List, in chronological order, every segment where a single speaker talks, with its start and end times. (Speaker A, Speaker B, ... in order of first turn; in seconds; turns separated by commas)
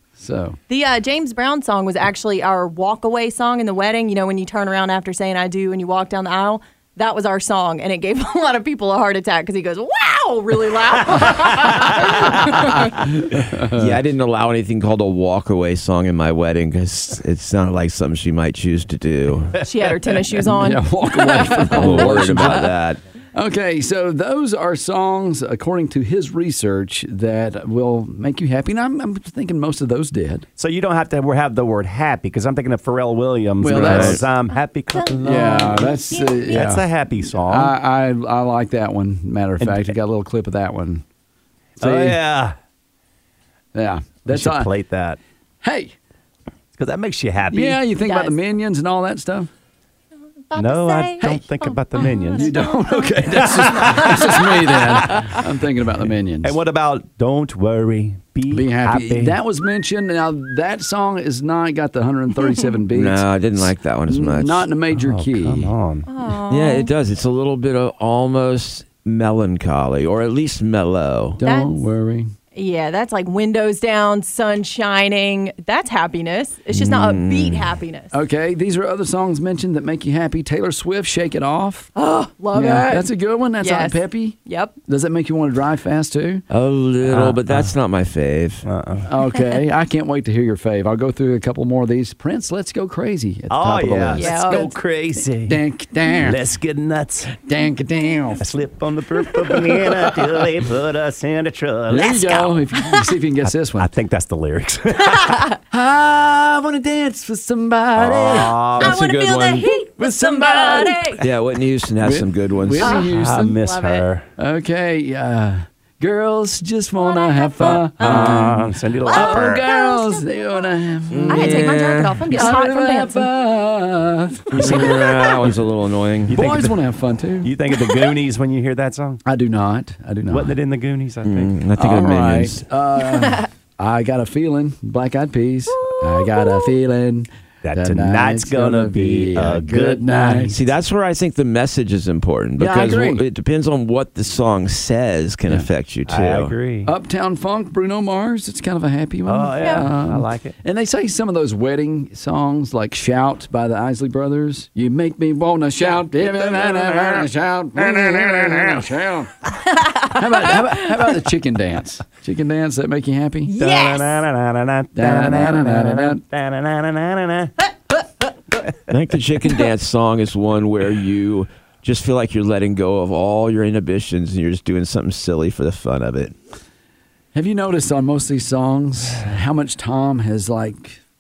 Speaker A: 0.2-0.6, Speaker B: 0.7-13.0, Speaker A: 12.5-13.9, Speaker C: 13.7-19.6, Speaker B: 19.6-22.6, Speaker A: 20.6-22.7, Speaker C: 21.5-23.0, Speaker A: 23.3-30.4, Speaker D: 30.6-37.7, Speaker A: 33.6-34.2, Speaker C: 33.7-34.2, Speaker B: 34.9-36.7, Speaker A: 35.2-41.0, Speaker D: 39.6-39.9, Speaker D: 41.8-42.5, Speaker A: 41.8-42.2, Speaker A: 43.7-44.7, Speaker D: 44.2-45.2, Speaker A: 45.6-46.0, Speaker D: 46.7-47.8, Speaker A: 47.5-49.5, Speaker B: 48.0-48.4, Speaker B: 50.5-54.2, Speaker D: 50.5-54.4, Speaker A: 52.4-56.5, Speaker D: 56.4-59.4, Speaker A: 58.5-65.7, Speaker B: 62.5-62.7, Speaker C: 62.9-64.7, Speaker D: 64.9-66.1, Speaker B: 66.0-66.9, Speaker C: 66.5-71.4, Speaker B: 71.4-71.9, Speaker A: 71.4-72.3, Speaker B: 72.5-78.1, Speaker C: 76.7-77.8, Speaker A: 78.1-81.9, Speaker B: 81.9-84.8, Speaker A: 82.5-86.4, Speaker C: 86.5-88.6, Speaker D: 87.1-87.7, Speaker D: 88.6-89.1, Speaker A: 89.1-94.7, Speaker D: 93.5-95.6, Speaker B: 94.1-94.7, Speaker A: 95.5-96.4, Speaker D: 96.2-97.3, Speaker A: 97.3-98.5, Speaker D: 98.4-102.4, Speaker A: 101.9-103.9, Speaker B: 102.0-103.0, Speaker D: 103.4-105.5, Speaker A: 105.7-108.6, Speaker D: 107.9-109.0, Speaker C: 108.8-109.7, Speaker B: 108.8-111.2, Speaker A: 110.0-111.2, Speaker C: 111.2-112.9, Speaker A: 112.0-113.6, Speaker B: 112.8-114.0, Speaker D: 112.9-114.2, Speaker A: 114.4-121.7, Speaker B: 117.0-120.7, Speaker D: 117.9-119.7, Speaker C: 121.1-122.2, Speaker B: 121.3-123.3, Speaker A: 122.3-124.9, Speaker D: 124.5-125.6, Speaker C: 124.5-126.4, Speaker D: 126.2-126.8, Speaker A: 126.3-127.5, Speaker D: 127.4-129.2, Speaker A: 129.2-130.6, Speaker D: 130.3-131.6, Speaker C: 131.2-132.6, Speaker A: 131.8-140.6, Speaker B: 135.9-136.7, Speaker D: 137.6-140.5, Speaker C: 140.5-146.5, Speaker A: 142.6-143.2, Speaker D: 146.1-146.9, Speaker A: 146.8-159.3, Speaker D: 149.2-150.5, Speaker B: 149.6-149.9, Speaker D: 156.2-158.8, Speaker A: 160.0-163.5, Speaker B: 163.5-164.2, Speaker D: 163.6-167.5, Speaker A: 164.9-166.2, Speaker C: 168.9-176.3, Speaker A: 177.3-181.0